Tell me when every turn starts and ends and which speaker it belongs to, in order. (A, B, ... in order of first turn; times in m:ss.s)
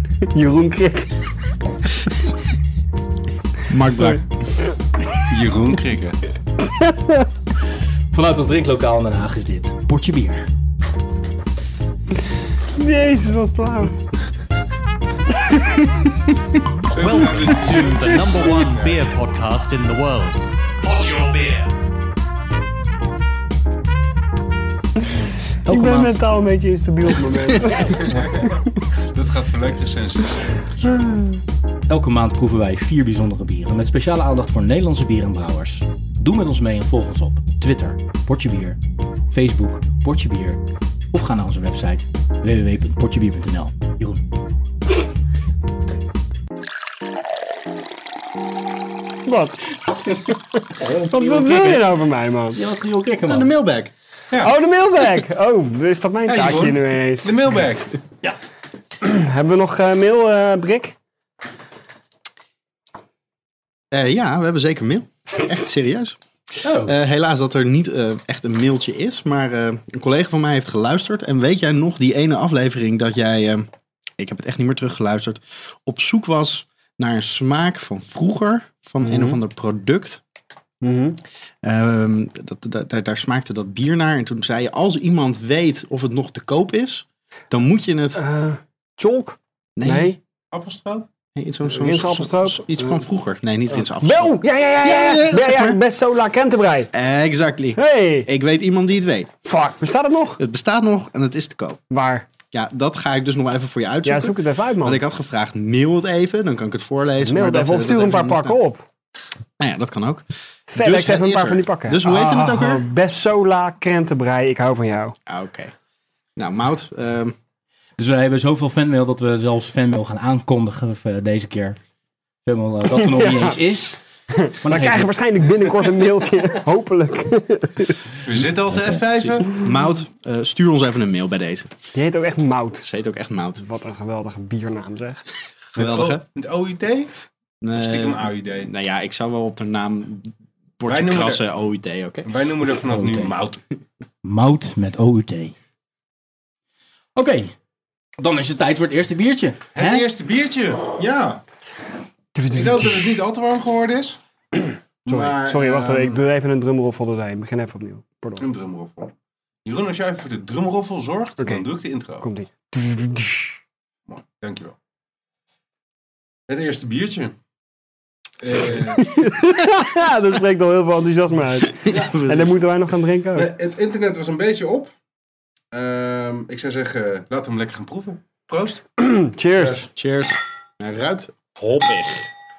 0:00.3-0:01.1 A
0:03.7-0:04.3 B
0:05.3-0:06.2 C
0:06.6-0:07.2 A
0:08.1-0:10.4 D
0:12.7-0:14.0 A
0:15.5-0:15.9 A
0:16.9-0:19.0 C
0:16.9-0:21.7 E
0:25.6-0:28.5 A
0:25.7-0:26.2 D
0:29.1-0:30.7 C
0:31.0-0:31.2 A
0:31.9-0:38.8 D
0:39.3-0:40.6 D
0:41.1-0:44.2 D
0:49.2-0:49.8 A
0:50.7-0:51.9 D
0:51.1-0:52.6 A
0:52.5-0:53.5 D
0:53.3-0:53.9 B
0:54.4-0:57.3 A
0:56.2-0:58.0 C
0:59.0-1:01.0 A
1:03.9-1:06.2 B
1:06.6-1:06.9 D
1:06.8-1:13.6 B
1:14.2-1:20.2 B
1:19.0-1:19.4 A
1:20.8-1:21.2 A
1:21.6-1:28.2 B
1:28.2-1:30.2 A
1:29.8-1:30.2 B
1:30.5-1:31.1 C
1:31.3-1:35.8 B
1:31.7-1:32.9 A
1:33.8-1:36.9 A
1:36.9-1:39.3 B
1:37.8-1:38.3 A
1:39.4-1:40.4 A
1:40.4-1:41.8 B
1:41.9-1:42.3 A
1:42.5-1:48.6 B
1:44.0-1:45.0 A
1:47.2-1:48.8 A
1:49.6-1:50.2 B
1:50.7-1:55.2 A
1:50.8-1:52.8 B
1:55.3-1:55.7 B
1:56.4-1:57.4 B
1:58.0-2:01.8 D
2:02.4-2:05.1 D
2:03.0-2:03.6 A
2:04.6-2:08.2 A
2:08.2-2:09.5 C
2:08.7-2:09.0 D
2:09.2-2:11.7 B
2:11.9-2:12.9 A
2:12.8-2:13.6 B
2:13.6-2:15.2 A
2:15.7-2:16.2 B
2:15.8-2:17.1 C
2:17.6-2:22.3 B
2:17.7-2:18.7 C
2:20.9-2:21.4 C
2:22.2-2:23.6 C
2:22.8-2:23.3 D
2:24.2-2:25.5 D
2:27.2-2:27.5 D
2:28.2-2:30.0 D
2:29.7-2:31.4 C
2:32.3-2:33.1 A
2:32.5-2:34.2 C
2:35.0-2:36.2 C
2:35.1-2:38.4 A
2:38.4-2:39.1 C
2:39.6-2:42.3 C
2:42.2-2:43.6 A
2:44.1-2:44.8 C
2:46.5-2:47.3 C
2:48.4-2:49.1 C
2:49.0-2:53.5 A
2:51.8-2:52.6 B
2:53.3-2:54.9 C
2:55.7-2:58.8 C
2:59.0-2:59.9 A
2:59.7-3:02.3 B